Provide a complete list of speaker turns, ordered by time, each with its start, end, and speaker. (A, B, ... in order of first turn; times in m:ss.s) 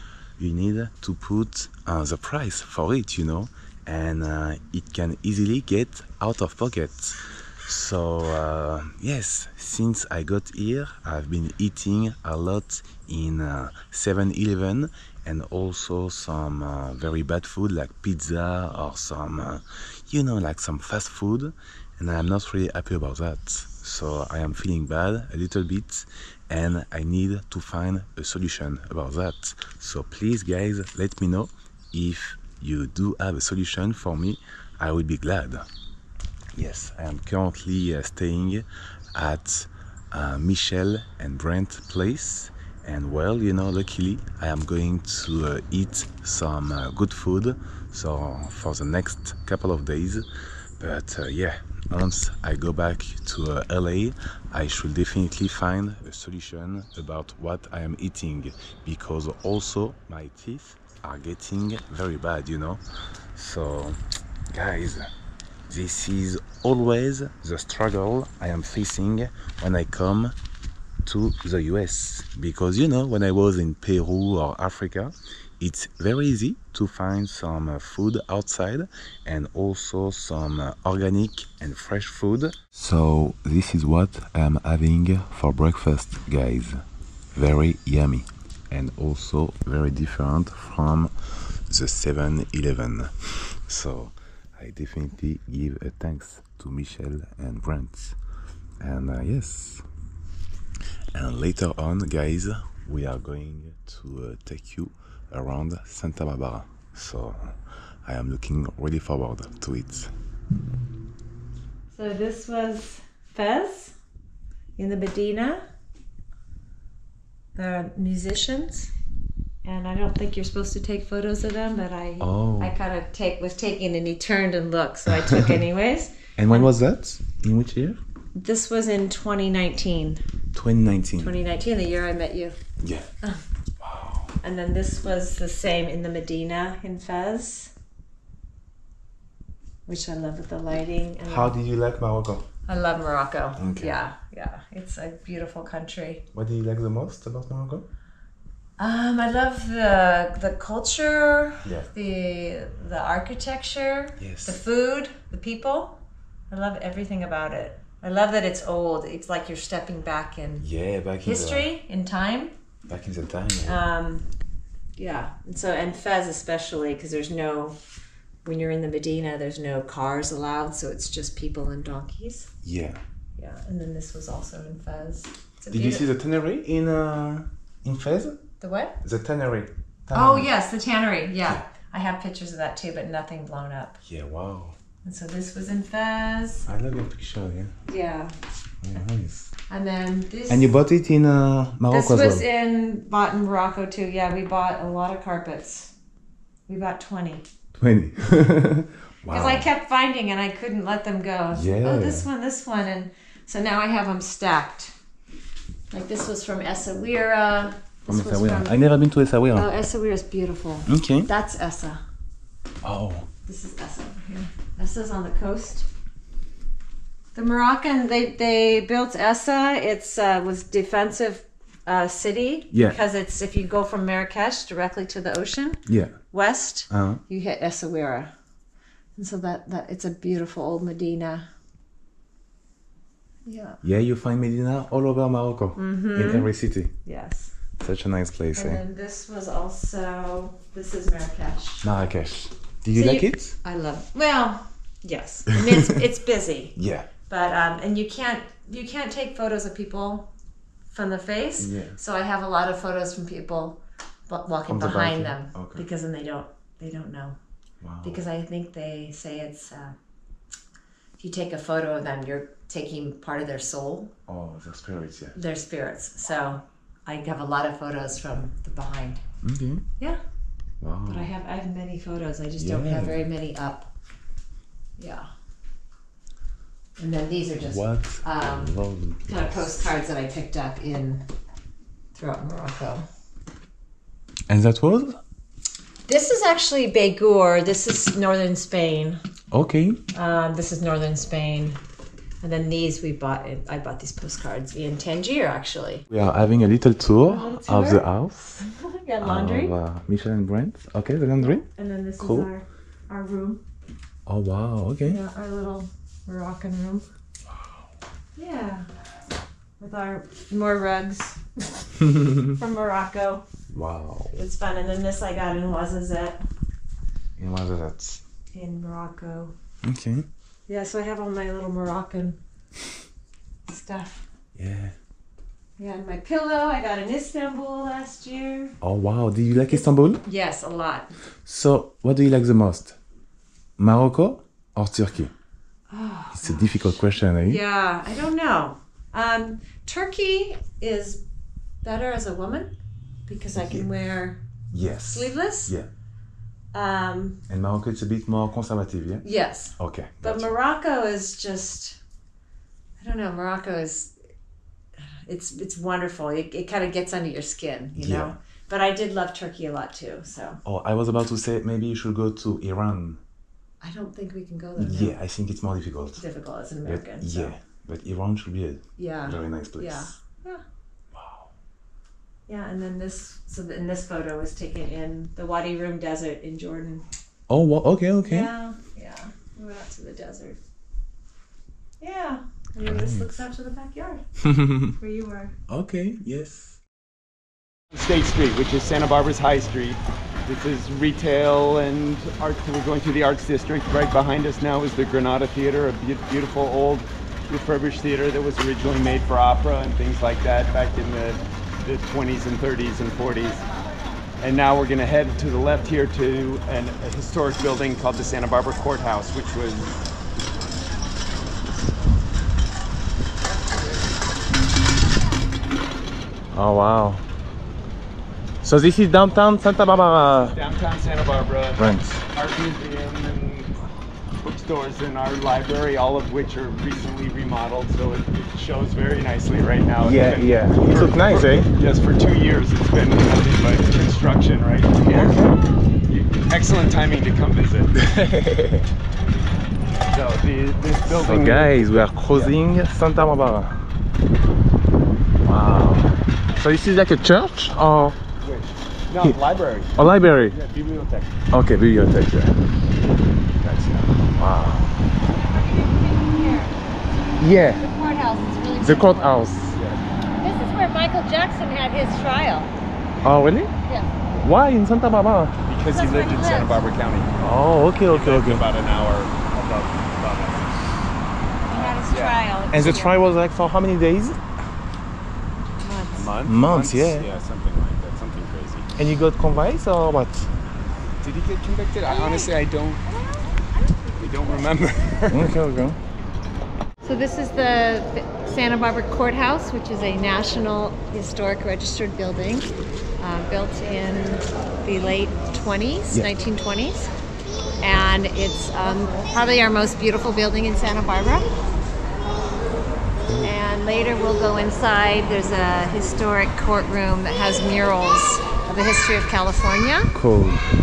0:00.4-0:35.6 A
0:36.5-0:50.3 A
0:50.8-1:02.8 A
1:03.3-1:05.1 A
1:05.7-1:10.3 A
1:11.0-1:38.2 A
1:38.8-1:39.8 A
1:41.1-1:50.1 A
1:51.9-1:53.9 B
1:54.8-1:55.6 B
1:57.5-1:58.9 B
1:59.6-2:06.7 B
2:02.2-2:02.8 A
2:06.4-2:08.0 A
2:08.3-2:10.2 B
2:10.5-2:11.4 A
2:11.2-2:12.6 B
2:12.8-2:13.1 A
2:13.8-2:14.3 A
2:14.4-2:17.7 B
2:19.8-2:21.6 B
2:21.2-2:22.4 A
2:22.7-2:26.2 B
2:23.6-2:24.0 A
2:26.3-2:27.9 A
2:28.8-2:40.7 B
2:31.6-2:31.9 A
2:34.2-2:34.6 A
2:40.6-2:41.7 A
2:41.2-2:42.5 B
2:42.9-2:43.8 A
2:43.6-2:44.3 B
2:45.0-2:47.8 B
2:48.4-2:52.5 B
2:52.6-2:53.0 A
2:53.4-2:56.1 B
2:55.7-2:58.4 A
2:58.6-2:59.0 B
2:59.0-3:00.5 A
3:00.1-3:04.0 B
3:04.0-3:04.8 A
3:05.0-3:06.7 B
3:06.7-3:07.7 A
3:07.9-3:08.3 B
3:08.8-3:09.5 A
3:09.7-3:10.7 B
3:10.5-3:12.4 A
3:11.9-3:15.9 B
3:16.7-3:17.4 B
3:17.8-3:19.7 A
3:19.3-3:24.9 B
3:21.5-3:22.3 A
3:25.9-3:28.9 B
3:28.1-3:29.8 A
3:29.5-3:32.0 B
3:30.8-3:31.3 A
3:32.8-3:33.3 A
3:33.4-3:35.9 B
3:37.3-3:48.3 B
3:42.7-3:43.0 A
3:45.9-3:46.2 A
3:46.9-3:47.2 A
3:49.2-3:51.4 B
3:53.4-3:53.8 B
3:53.8-3:56.9 A
3:55.8-3:56.5 B
3:57.0-3:57.5 B
3:57.8-3:58.8 A
3:58.6-4:01.9 B
4:01.8-4:03.5 A
4:02.9-4:06.8 B
4:06.8-4:07.1 A
4:07.3-4:10.3 B
4:10.9-4:17.4 B
4:11.6-4:12.0 A
4:14.7-4:15.8 A
4:17.8-4:18.2 A
4:18.0-4:20.0 B
4:21.2-4:24.1 B
4:24.3-4:25.3 A
4:25.3-4:29.2 B
4:29.4-4:29.8 A
4:30.8-4:31.3 A
4:31.0-4:33.9 B
4:32.6-4:33.2 A
4:35.0-4:35.3 B
4:37.0-4:41.2 B
4:37.6-4:39.7 A
4:42.1-4:43.0 B
4:44.5-4:45.2 A
4:46.1-4:49.2 B
4:49.5-4:50.0 A
4:50.1-4:51.8 B
4:52.4-4:56.0 B
4:56.1-4:58.6 A
4:57.2-4:58.1 B
4:58.6-4:59.7 B
4:59.2-5:01.6 A
5:01.4-5:03.6 B
5:02.2-5:02.5 A
5:04.2-5:05.2 A
5:05.1-5:07.0 B
5:08.4-5:08.8 B
5:09.8-5:13.4 B
5:13.7-5:14.4 A
5:14.4-5:16.4 B
5:17.4-5:18.2 A
5:18.5-5:19.5 B
5:19.8-5:20.2 A
5:20.7-5:22.4 B
5:23.7-5:24.2 B
5:24.5-5:24.9 A
5:25.8-5:28.8 B
5:28.8-5:30.2 A
5:29.7-5:31.1 B
5:31.4-5:33.0 A
5:33.8-5:35.3 A
5:35.9-5:41.2 B
5:36.3-5:37.6 A
5:41.8-5:42.7 B
5:43.3-5:44.4 B
5:43.6-5:43.8 A
5:44.7-5:45.9 A
5:45.1-5:45.7 B
5:46.7-5:47.4 B
5:47.5-5:49.2 A
5:49.2-5:52.0 B
5:49.8-5:50.5 A
5:53.0-5:54.1 B
5:55.2-6:00.6 B
5:58.0-5:58.4 A
6:00.6-6:03.2 A
6:03.8-6:05.2 B
6:04.8-6:06.2 A
6:06.2-6:07.5 B
6:06.8-6:10.1 A
6:09.0-6:10.6 B
6:11.1-6:11.5 A
6:12.5-6:17.0 B
6:17.5-6:18.5 A
6:18.2-6:20.6 B
6:22.0-6:24.2 B
6:22.8-6:23.4 A
6:24.4-6:24.9 A
6:25.0-6:25.5 B
6:25.7-6:26.8 A
6:27.9-6:43.6 C
6:44.4-6:50.0 C
6:56.5-6:57.2 A
6:58.6-7:00.6 A
7:00.3-7:03.7 C
7:01.8-7:02.2 A
7:04.4-7:18.0 C
7:10.0-7:11.7 A
7:15.1-7:15.6 A
7:17.9-7:18.9 A
7:20.1-7:22.5 C
7:21.1-7:23.8 A
7:25.4-7:28.2 A
7:28.4-7:31.4 C
7:30.0-7:30.6 A
7:31.5-7:32.6 A
7:33.6-7:34.2 C
7:34.3-7:34.9 A
7:35.3-7:36.7 B
7:37.4-7:37.8 A
7:37.7-7:39.4 B
7:38.8-7:39.8 A
7:39.7-7:40.0 C
7:40.4-7:42.7 B
7:43.2-7:43.7 A
7:43.8-7:44.1 B
7:44.3-7:45.5 A
7:45.7-7:47.4 C
7:45.9-7:46.8 B
7:47.4-7:48.6 A
7:48.0-7:50.8 C
7:51.7-7:53.2 B
7:52.1-7:52.4 C
7:52.7-7:54.4 A
7:55.8-7:56.3 B
7:56.1-7:58.9 C
7:56.4-7:57.3 A
7:59.0-8:00.5 A
8:01.2-8:03.2 C
8:02.0-8:02.5 B
8:04.1-8:05.4 C
8:05.3-8:06.0 A
8:07.0-8:17.1 B
8:17.8-8:21.5 B
8:23.3-8:23.5 A
8:23.4-8:30.1 B
8:30.1-8:30.7 A